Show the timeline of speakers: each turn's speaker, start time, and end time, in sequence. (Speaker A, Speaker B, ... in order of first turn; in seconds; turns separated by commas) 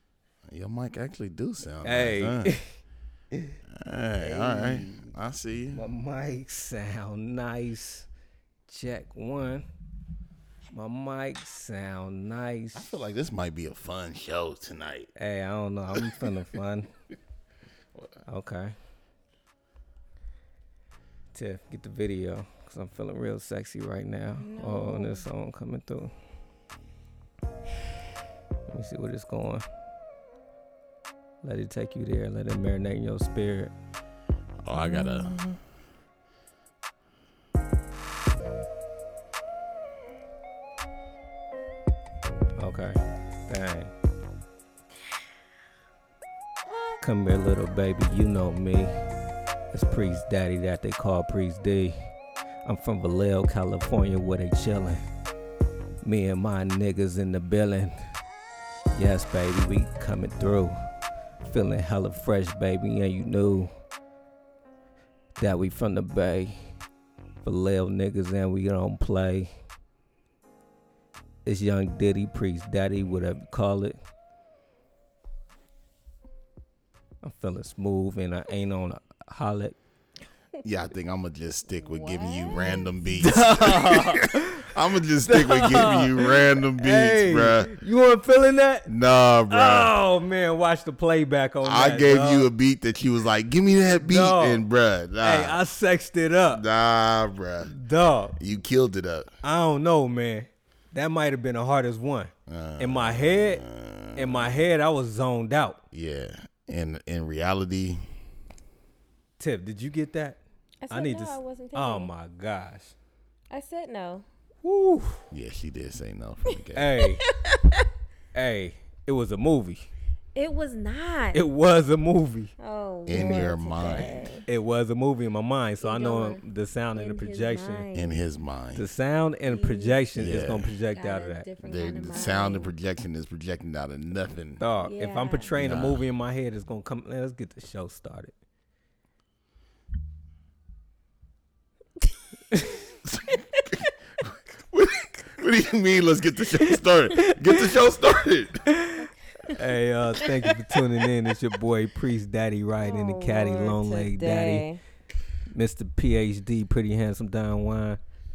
Speaker A: 0.5-2.5, Speaker B: 1.8-2.7, Speaker A: 3.7-5.8, Speaker B: 4.2-5.1, Speaker B: 5.7-8.1, Speaker B: 8.7-9.7, Speaker B: 10.7-12.9, Speaker A: 12.8-15.1, Speaker B: 15.2-16.9, Speaker B: 18.3-18.8, Speaker B: 21.3-26.1, Speaker C: 24.4-25.2, Speaker B: 28.7-29.6, Speaker B: 31.4-33.7, Speaker A: 34.6-35.3, Speaker B: 34.9-35.5, Speaker B: 42.6-43.9, Speaker B: 47.0-48.9, Speaker B: 49.7-52.1, Speaker B: 52.6-55.0, Speaker B: 56.0-58.1, Speaker B: 58.9-60.8, Speaker B: 61.4-63.7, Speaker B: 65.4-66.7, Speaker B: 67.4-69.5, Speaker B: 71.5-74.0, Speaker B: 77.2-79.8, Speaker A: 80.6-87.7, Speaker C: 81.7-82.9, Speaker B: 83.2-84.7, Speaker B: 85.3-88.9, Speaker A: 88.9-89.9, Speaker B: 89.5-92.5, Speaker A: 91.6-95.6, Speaker B: 94.1-94.6, Speaker B: 95.2-96.6, Speaker A: 96.5-97.7, Speaker B: 97.7-98.4, Speaker A: 98.4-99.3, Speaker B: 99.4-105.8, Speaker A: 102.5-104.6, Speaker A: 105.9-108.0, Speaker B: 109.4-110.4, Speaker C: 110.8-112.1, Speaker B: 110.9-113.0, Speaker C: 113.5-114.2, Speaker B: 114.6-115.2, Speaker A: 115.3-116.9, Speaker B: 116.8-117.2, Speaker C: 117.2-117.8, Speaker B: 118.3-119.9, Speaker C: 120.3-121.4, Speaker B: 121.3-122.5, Speaker C: 122.6-124.4, Speaker A: 123.1-124.3, Speaker B: 123.1-123.5, Speaker B: 124.5-127.8, Speaker C: 125.8-126.4, Speaker C: 127.0-128.2, Speaker A: 127.9-128.8, Speaker B: 128.8-131.5, Speaker C: 129.5-130.0, Speaker A: 130.2-130.7, Speaker C: 130.9-132.7, Speaker A: 131.6-134.6, Speaker B: 134.6-138.3, Speaker C: 134.8-135.5, Speaker A: 135.6-136.0, Speaker B: 142.5-142.8, Speaker A: 143.1-148.7, Speaker B: 148.7-154.7, Speaker C: 152.8-154.8, Speaker B: 155.5-158.0